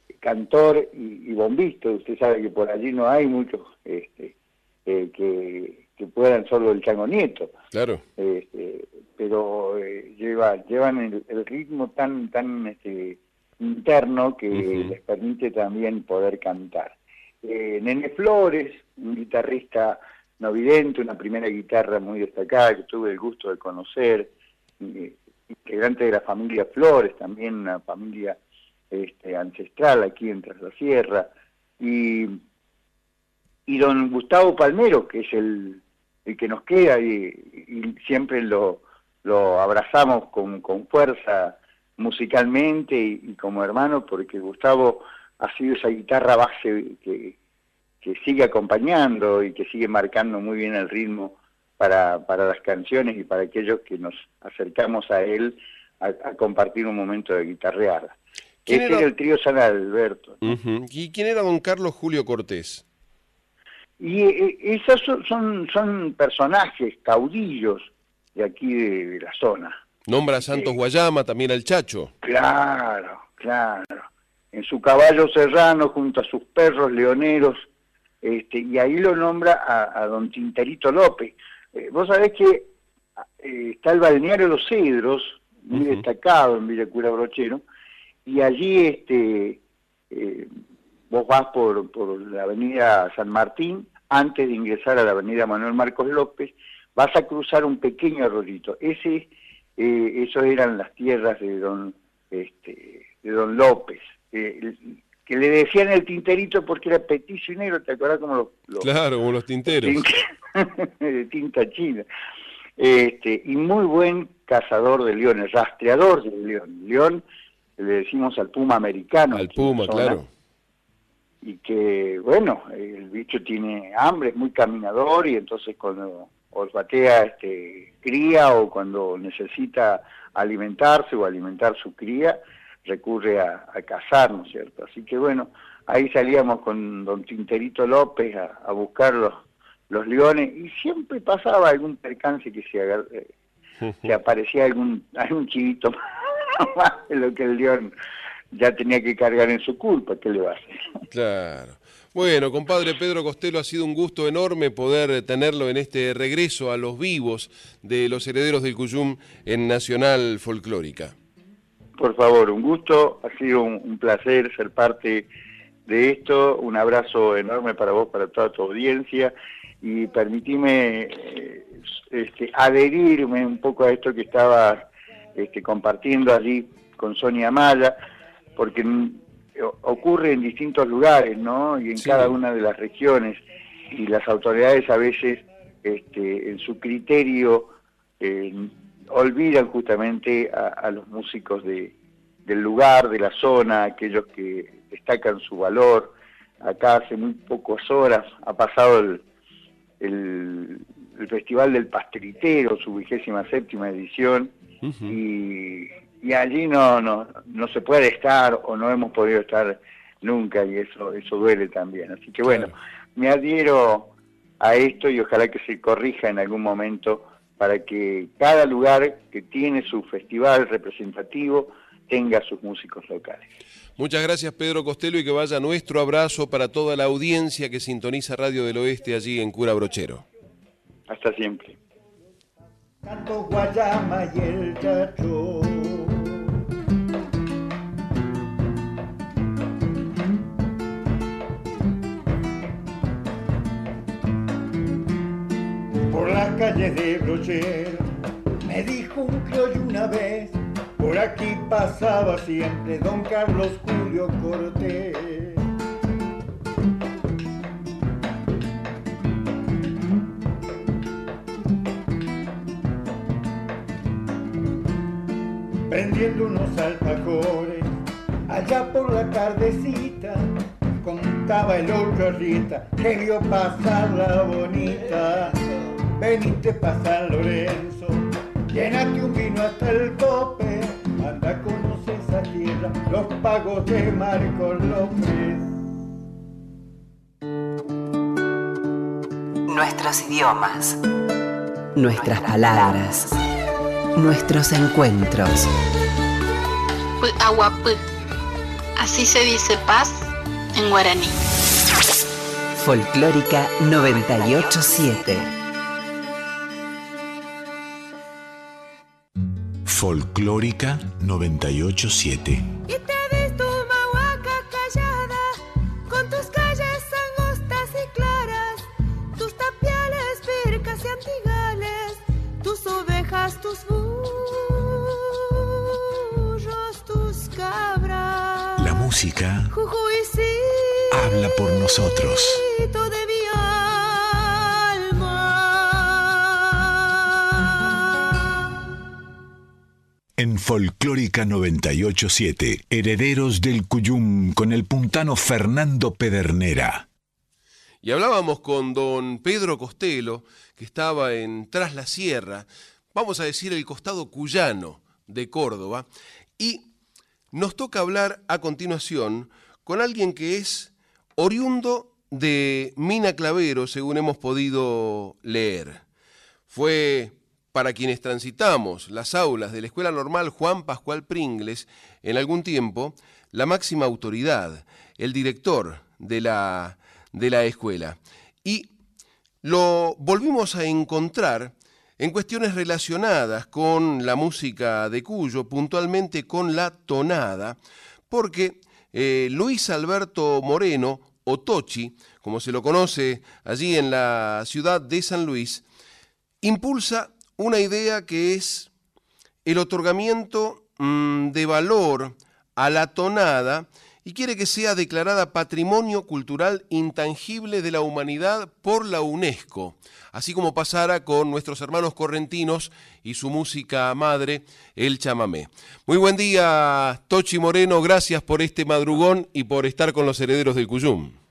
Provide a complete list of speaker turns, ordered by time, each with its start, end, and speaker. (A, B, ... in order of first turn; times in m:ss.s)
0:00.2-0:04.3 A
0:04.8-0:07.5 A
0:07.7-0:08.0 B
0:08.2-0:28.4 A
0:14.5-0:14.9 B
0:28.9-0:32.4 A
0:33.7-0:47.3 A
0:48.0-0:58.2 A
0:58.6-0:59.1 B
0:58.7-1:00.5 A
1:00.4-1:02.8 B
1:04.0-1:09.8 A
1:10.1-1:12.1 B
1:10.4-1:10.7 A
1:12.2-1:17.7 A
1:18.2-1:22.7 A
1:23.4-1:27.6 A
1:25.7-1:26.0 B
1:28.2-1:29.6 A
1:30.1-1:30.5 A
1:31.1-1:48.9 A
1:48.8-1:50.0 B
1:49.6-1:52.0 A
1:52.8-1:57.2 A
1:57.8-2:00.2 A
1:59.3-2:00.3 B
2:01.4-2:23.3 A
2:24.0-2:26.0 A
2:26.6-2:27.9 A
2:28.5-2:30.7 A
2:31.1-2:41.1 B
2:42.0-2:45.2 A
2:45.9-2:58.0 A
2:58.6-3:11.9 A
3:02.0-3:02.3 B
3:12.4-3:19.2 A
3:20.0-3:24.5 A
3:24.8-3:25.1 B
3:25.1-3:43.5 A
3:32.5-3:32.7 B
3:44.0-3:50.2 B
3:51.1-3:51.7 A
3:53.0-3:56.4 C
4:06.1-4:08.1 C
4:08.6-4:15.6 C
4:25.9-4:27.9 C
4:28.5-4:35.6 C
4:36.2-4:45.7 C
4:49.7-4:51.0 D
4:51.9-4:53.3 D
4:54.1-4:55.7 D
4:57.2-4:58.0 E
4:59.0-5:01.4 E
5:02.8-5:05.5 D
5:09.8-5:12.7 F
5:12.9-5:28.8 G
5:28.8-5:29.7 F
5:29.7-5:31.7 G
5:31.1-5:32.6 F
5:32.6-5:36.2 G
5:40.4-5:47.1 F
5:48.0-5:56.0 B
5:56.6-5:56.8 B
5:57.5-6:06.0 B
6:06.7-6:18.9 B
6:19.6-6:27.8 B
6:28.3-6:35.8 B
6:36.6-6:38.9 B
6:39.6-7:01.3 B